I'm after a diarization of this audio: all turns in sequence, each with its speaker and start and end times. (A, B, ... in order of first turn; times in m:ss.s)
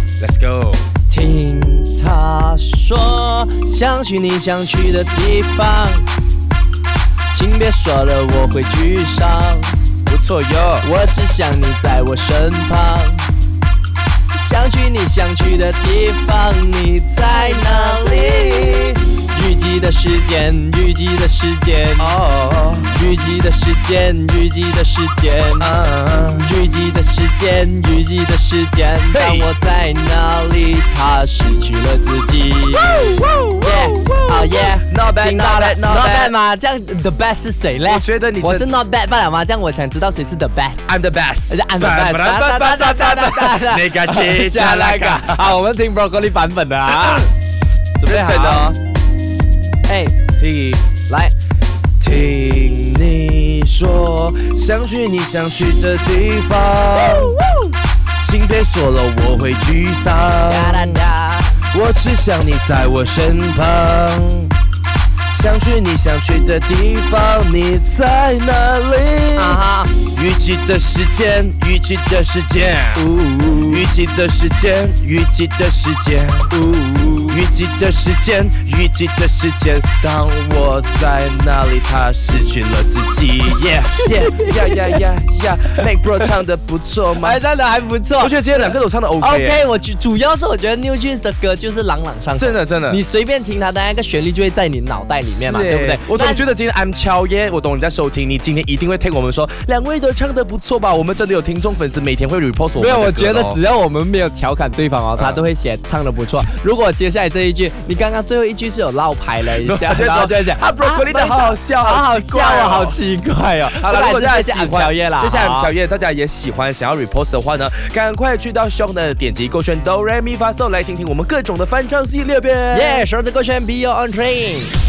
0:00.2-0:00.9 A
0:01.1-0:06.1 B
0:07.3-0:09.8 B
0:10.1-0:10.9 A
0:10.8-0:13.3 B
0:14.3-0:22.1 B
0:22.0-0:23.0 A
0:22.9-0:25.7 B
0:25.6-0:26.5 A
0:26.4-0:40.8 B
0:29.1-0:29.5 A
0:33.0-0:36.3 A
0:37.8-0:38.7 A
0:40.9-0:45.5 A
0:41.5-0:47.3 B
0:48.0-0:48.7 A
0:48.0-0:48.8 B
0:49.9-0:50.2 B
0:50.4-0:50.8 A
0:51.1-0:51.3 B
0:52.0-0:57.4 A
0:57.0-0:57.7 B
0:58.2-1:01.0 A
1:00.3-1:01.6 B
1:01.7-1:04.5 A
1:05.3-1:13.1 A
1:09.4-1:09.9 B
1:12.9-1:13.8 B
1:13.6-1:16.6 A
1:16.5-1:17.4 B
1:17.3-1:27.4 A
1:24.0-1:25.0 B
1:27.2-1:36.4 B
1:28.2-1:29.6 A
1:32.3-1:33.0 A
1:35.3-1:43.6 A
1:42.8-1:55.7 B
1:49.5-1:53.0 A
1:53.7-2:03.0 A
2:02.7-2:04.7 B